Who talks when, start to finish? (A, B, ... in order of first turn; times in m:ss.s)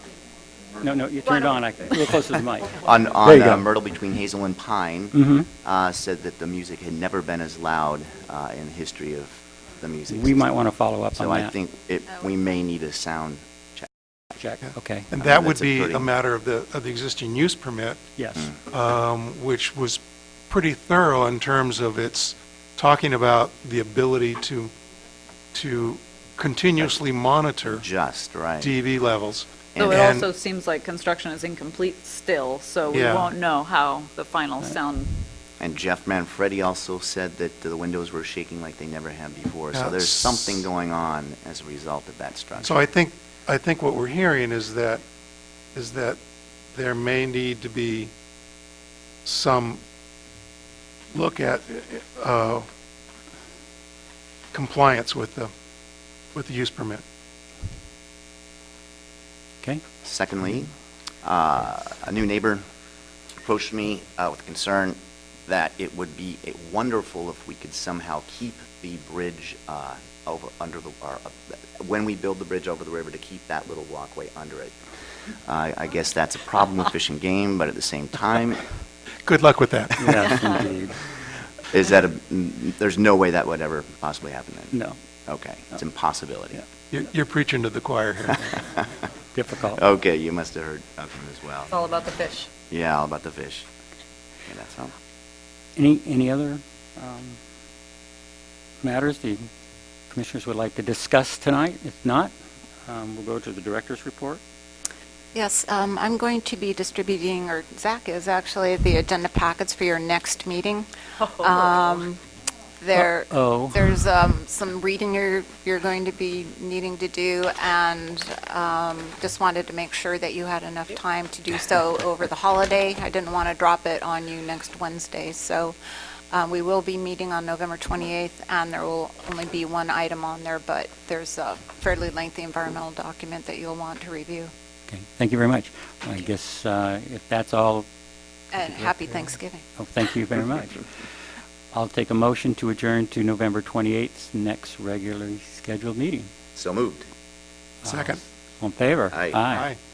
0:00.8-0:02.8 A
0:02.8-0:10.5 B
0:05.1-0:05.5 A
0:10.1-0:11.5 A
0:11.1-0:13.9 B
0:14.4-0:15.1 A
0:15.1-0:18.0 C
0:15.2-0:16.1 B
0:18.2-0:18.5 A
0:18.7-0:24.7 C
0:25.5-0:27.9 C
0:27.6-0:28.7 B
0:28.6-0:30.3 C
0:29.7-0:30.1 B
0:29.8-0:35.1 D
0:32.9-0:33.3 C
0:35.6-0:42.7 B
0:39.7-0:40.6 C
0:42.6-0:45.0 C
0:45.7-0:46.2 C
0:46.7-0:48.1 C
0:49.2-0:49.8 C
0:51.1-0:52.6 C
0:54.5-0:55.5 C
0:56.3-0:57.0 C
1:00.0-1:00.7 B
1:01.2-1:02.6 B
1:03.4-1:14.8 B
1:15.3-1:18.7 B
1:19.2-1:20.1 C
1:20.0-1:21.0 A
1:21.7-1:24.7 B
1:24.7-1:25.0 A
1:25.3-1:26.6 B
1:26.9-1:28.4 C
1:29.3-1:29.8 A
1:29.8-1:31.8 B
1:31.8-1:32.5 D
1:32.7-1:33.7 B
1:34.4-1:34.9 B
1:35.8-1:37.4 A
1:38.8-1:39.5 A
1:40.1-1:42.3 A
1:42.9-1:44.4 A
1:45.3-1:52.2 E
1:51.2-1:52.0 D
1:52.8-2:05.8 E
1:52.9-1:53.9 A
2:06.3-2:14.5 E
2:14.9-2:17.9 A
2:18.5-2:19.6 E
2:18.6-2:20.9 A
2:21.7-2:26.3 A
2:26.5-2:27.1 B
2:27.8-2:29.7 A
2:27.8-2:28.2 C
2:29.1-2:29.4 B
2:29.5-2:29.8 C